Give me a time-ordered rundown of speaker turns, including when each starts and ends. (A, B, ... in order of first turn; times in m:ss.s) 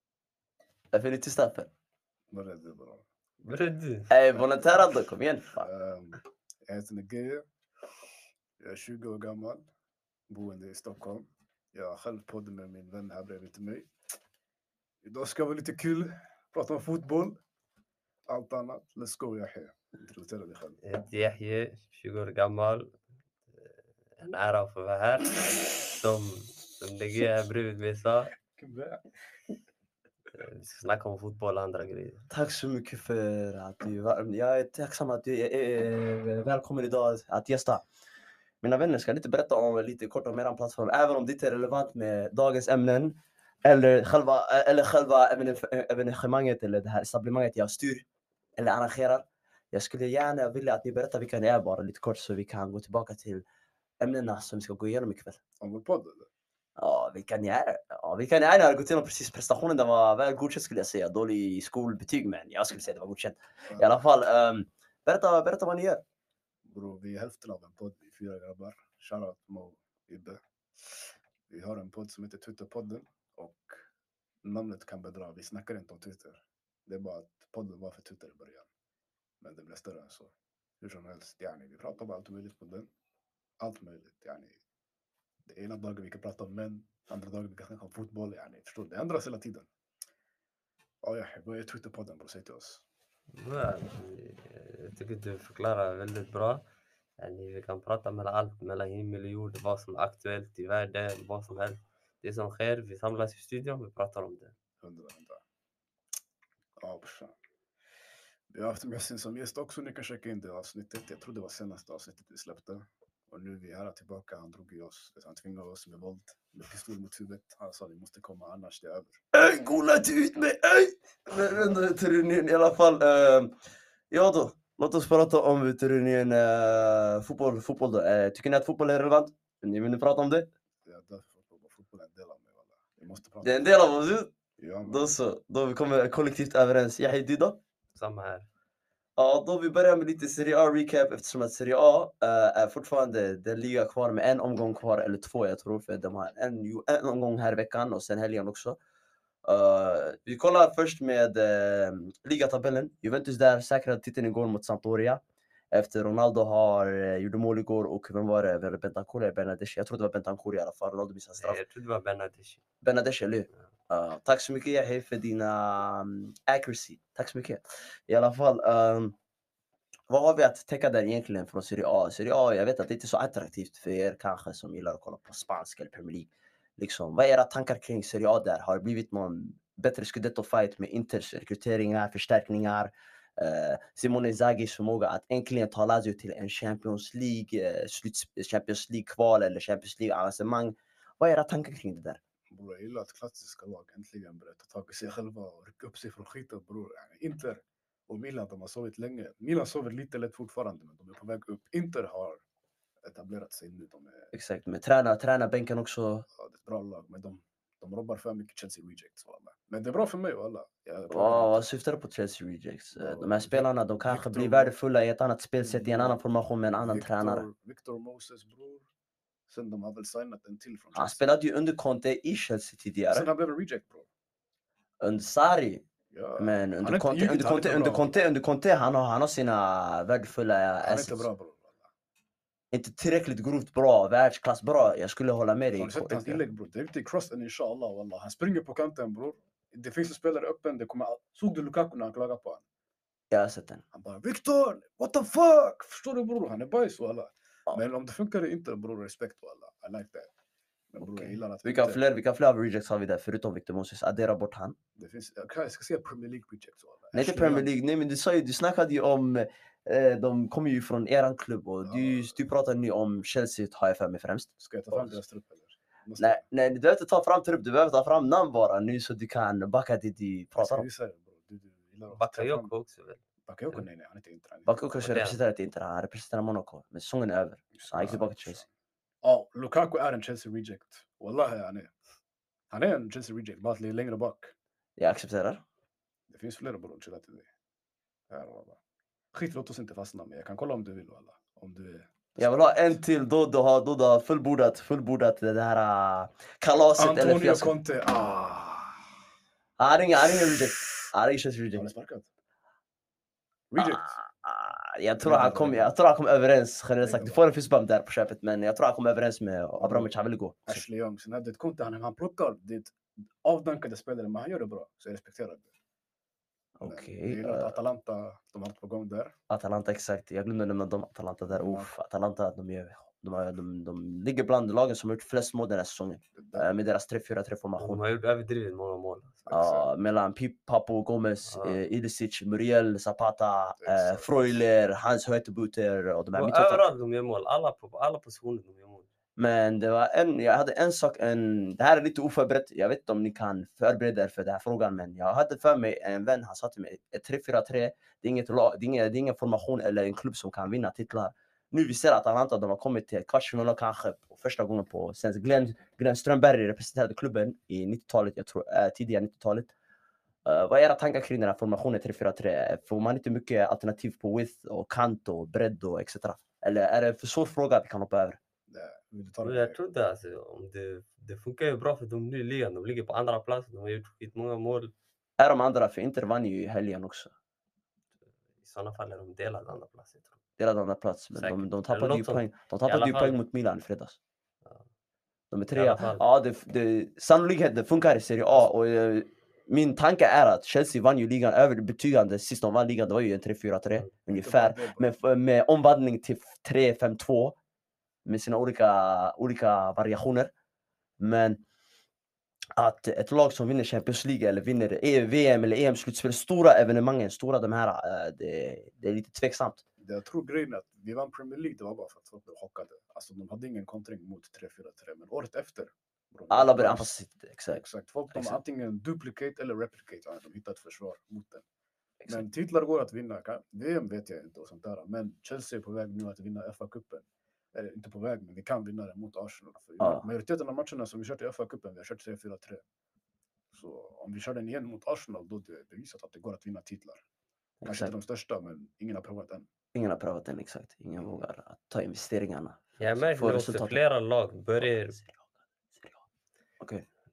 0:00.9-0:01.7 A
0:02.3-0:03.7 B
0:03.5-0:04.1 C
0:04.1-0:05.7 A
0:05.6-0:07.5 B
0:08.6-0:09.6 B
0:10.3-0:13.9 B
0:15.0-0:17.4 B
0:18.3-0:20.8 B
0:20.8-0:22.9 C
0:23.5-0:28.4 C
0:28.5-0:29.0 B
0:30.3-0:32.3 C
0:32.3-0:37.8 A
0:38.6-0:48.0 A
0:48.6-0:53.4 A
0:54.0-0:55.4 A
0:55.6-0:56.3 B
0:56.8-1:06.0 A
1:03.7-1:04.0 B
1:06.6-1:13.9 B
1:14.4-1:18.7 B
1:19.4-1:22.9 B
1:23.6-1:24.6 B
1:25.4-1:29.7 B
1:31.0-1:32.8 B
1:33.3-1:36.6 C
1:37.2-1:44.5 C
1:44.8-1:45.4 B
1:46.8-1:47.3 B
1:48.5-1:59.2 B
1:59.3-2:03.6 A
2:04.1-2:10.5 A
2:10.8-2:13.7 B
2:13.4-2:14.3 A
2:14.6-2:15.2 B
2:14.8-2:17.6 A
2:17.9-2:18.5 C
2:19.2-2:28.8 A
2:29.5-2:41.6 A
2:41.4-2:42.6 C
2:42.8-2:49.2 A
2:50.1-3:12.2 A
3:12.5-3:22.4 B
3:23.0-3:24.3 B
3:24.3-3:26.3 A
3:26.3-3:31.7 B
3:31.1-3:37.5 A
3:33.0-3:34.8 B
3:35.6-3:36.2 B
3:36.8-3:38.9 B
3:39.5-3:41.3 B
3:41.0-3:43.3 A
3:43.1-3:44.1 B
3:45.0-3:45.8 A
3:46.1-3:48.1 B
3:46.4-3:51.3 A
3:50.8-3:51.9 B
3:52.7-3:56.4 A
3:55.8-4:02.6 B
4:03.3-4:03.8 A
4:03.9-4:10.3 B
4:10.9-4:12.0 B
4:11.0-4:14.8 A
4:15.0-4:17.7 B
4:17.1-4:25.2 A
4:21.8-4:22.4 B
4:24.6-4:26.4 B
4:26.2-4:30.8 A
4:30.6-4:32.7 B
4:32.1-4:33.2 C
4:33.5-4:34.8 B
4:34.7-4:38.6 A
4:35.0-4:35.4 C
4:37.8-4:38.7 B
4:39.2-4:41.9 B
4:42.7-4:44.5 B
4:45.0-4:45.6 A
4:46.3-4:47.5 B
4:48.3-4:48.8 B
4:49.3-4:53.0 B
4:52.4-4:57.7 A
4:57.0-4:59.2 B
4:59.8-5:01.9 A
5:01.8-5:02.3 B
5:03.7-5:04.2 B
5:03.8-5:10.8 A
5:05.2-5:05.9 B
5:07.0-5:07.4 B
5:09.8-5:10.1 B
5:10.7-5:15.7 B
5:16.8-5:17.8 A
5:16.8-5:19.4 B
5:19.5-5:28.0 A
5:21.5-5:21.9 B
5:26.4-5:26.7 B
5:27.8-5:29.4 C
5:29.5-5:29.9 B
5:29.5-5:36.9 A
5:31.5-5:31.8 C
5:33.8-5:34.6 B
5:36.4-5:39.1 C
5:39.4-5:59.7 A
6:00.5-6:08.4 A
6:08.7-6:09.8 B
6:09.4-6:14.9 C
6:15.4-6:17.3 A
6:18.6-6:20.4 C
6:20.6-6:24.2 A
6:21.4-6:23.4 C
6:25.5-6:37.6 A
6:25.7-6:26.2 C
6:34.3-6:35.2 B
6:38.3-6:40.5 A
6:41.2-6:41.6 A
6:42.8-6:49.8 A
6:50.0-6:57.1 B
6:56.5-6:58.6 A
6:57.8-7:01.6 B
7:02.3-7:12.8 B
7:10.0-7:10.3 A
7:13.7-7:17.2 B
7:17.8-7:18.1 A
7:17.8-7:19.7 B
7:20.0-7:24.0 A
7:23.0-7:25.2 C
7:24.8-7:25.5 A